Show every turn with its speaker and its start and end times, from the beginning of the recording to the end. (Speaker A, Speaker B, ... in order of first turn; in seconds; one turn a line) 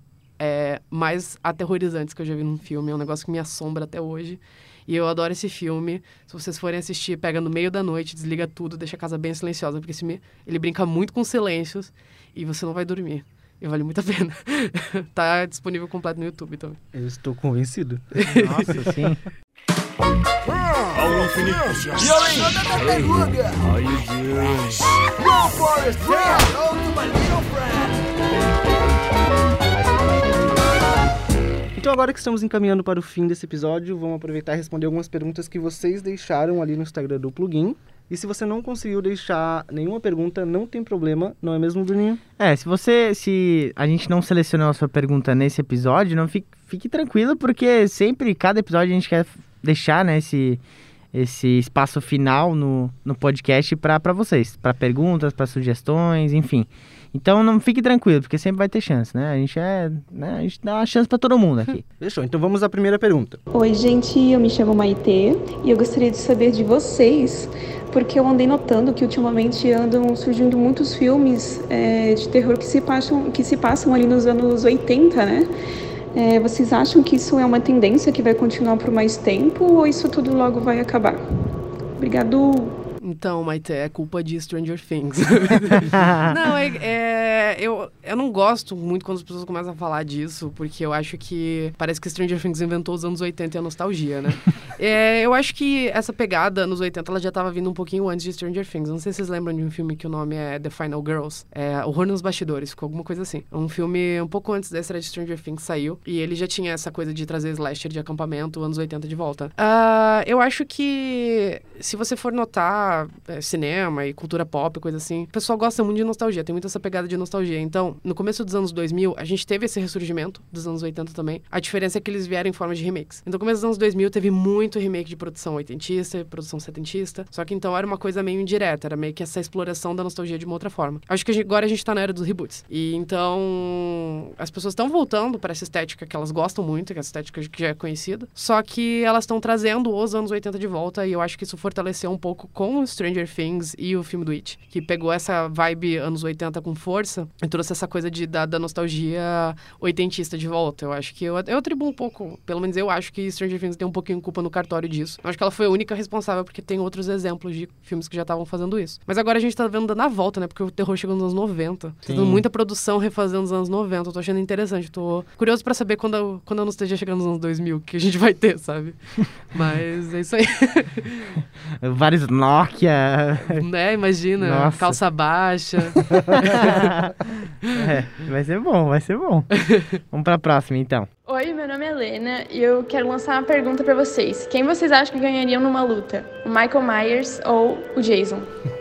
Speaker A: 0.4-16.8
Speaker B: 16.9-18.1
Speaker A: 18.1-18.9
Speaker C: 18.3-19.2
Speaker D: 20.5-28.1
Speaker B: 31.8-42.2
Speaker C: 42.4-50.6
Speaker C: 51.1-61.8
Speaker B: 62.0-63.4
Speaker E: 63.5-75.5
Speaker E: 76.2-81.2
Speaker E: 82.0-82.8
Speaker A: 83.0-171.4
Speaker C: 85.9-86.3
Speaker C: 162.1-162.4
Speaker C: 171.8-173.7
Speaker A: 173.5-176.8
Speaker C: 174.4-175.0
Speaker C: 175.9-179.5
Speaker A: 179.6-180.0
Speaker C: 180.1-181.1
Speaker F: 181.3-188.5